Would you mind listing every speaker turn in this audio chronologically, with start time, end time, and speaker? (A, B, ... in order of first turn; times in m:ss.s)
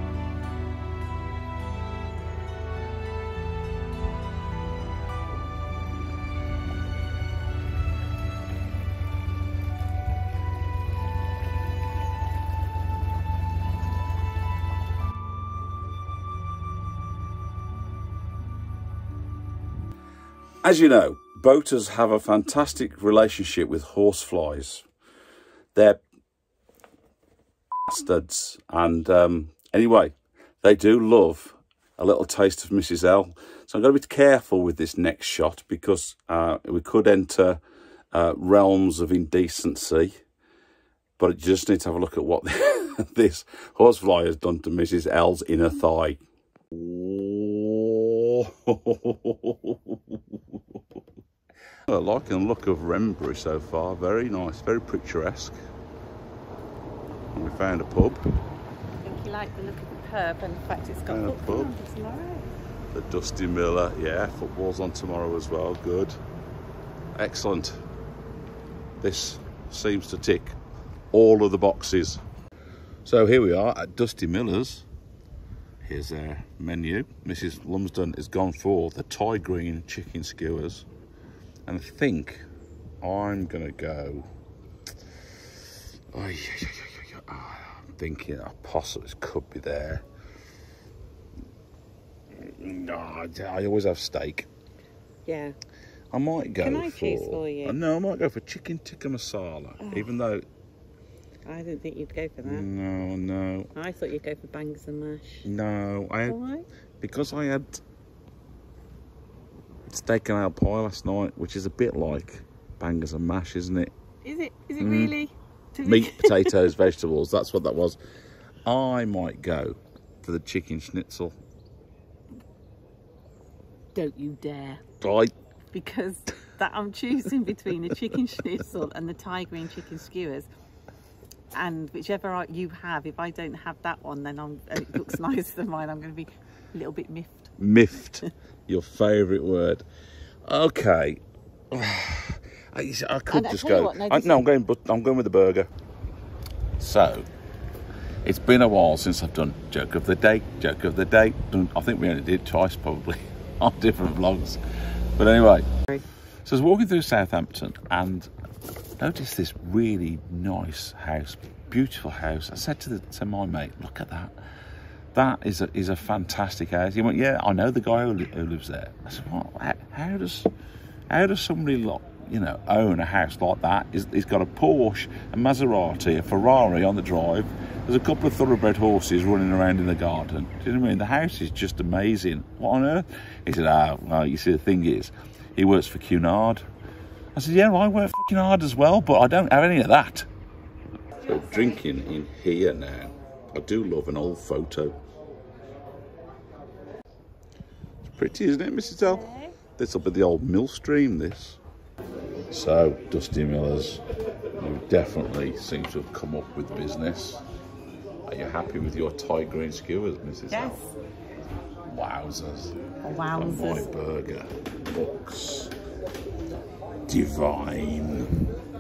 0:20.6-0:24.9 A
0:25.8-0:26.0 A
0:27.9-0:37.6 A
0:38.1-0:40.2 A
0:41.2-0:50.4 A
0:51.9-0:55.6 A
0:57.3-0:58.2 A
0:59.0-1:02.4 B
1:01.1-1:01.7 A
1:02.9-1:06.2 A
1:07.2-1:07.8 A
1:09.0-1:10.6 A
1:11.1-1:12.2 A
1:13.0-1:14.9 A
1:15.8-1:20.9 A
1:21.7-1:22.4 A
1:23.0-1:24.3 A
1:26.1-1:30.0 A
1:32.3-1:34.5 A
1:35.2-1:35.6 B
1:36.1-1:40.4 A
1:36.6-1:37.8 B
1:39.8-1:40.1 B
1:41.4-1:42.7 B
1:42.4-1:43.7 A
1:43.8-1:45.5 B
1:45.4-1:46.4 A
1:46.3-1:46.7 B
1:47.0-1:47.8 A
1:49.9-1:53.9 A
1:54.2-1:56.6 B
1:54.8-1:55.1 A
1:55.8-1:58.0 A
1:58.7-2:01.4 A
2:04.0-2:04.8 B
2:05.0-2:05.3 A
2:05.7-2:10.5 B
2:11.5-2:17.5 B
2:17.6-2:19.8 A
2:20.5-2:25.7 A
2:23.3-2:24.4 B
2:26.8-2:27.3 A
2:28.2-2:34.6 A
2:35.2-2:35.7 A
2:36.4-2:38.3 A
2:39.0-2:44.4 A
2:45.2-2:50.5 A
2:51.1-3:06.7 A
3:07.4-3:10.3 A
3:11.2-3:15.0 A
3:11.3-3:11.8 B
3:18.0-3:21.6 A
3:19.0-3:19.6 B
3:22.5-3:24.0 A
3:24.6-3:27.4 A
3:28.3-3:30.8 A
3:30.5-3:30.9 B
3:31.9-3:35.7 A
3:33.0-3:33.9 B
3:37.1-3:38.4 A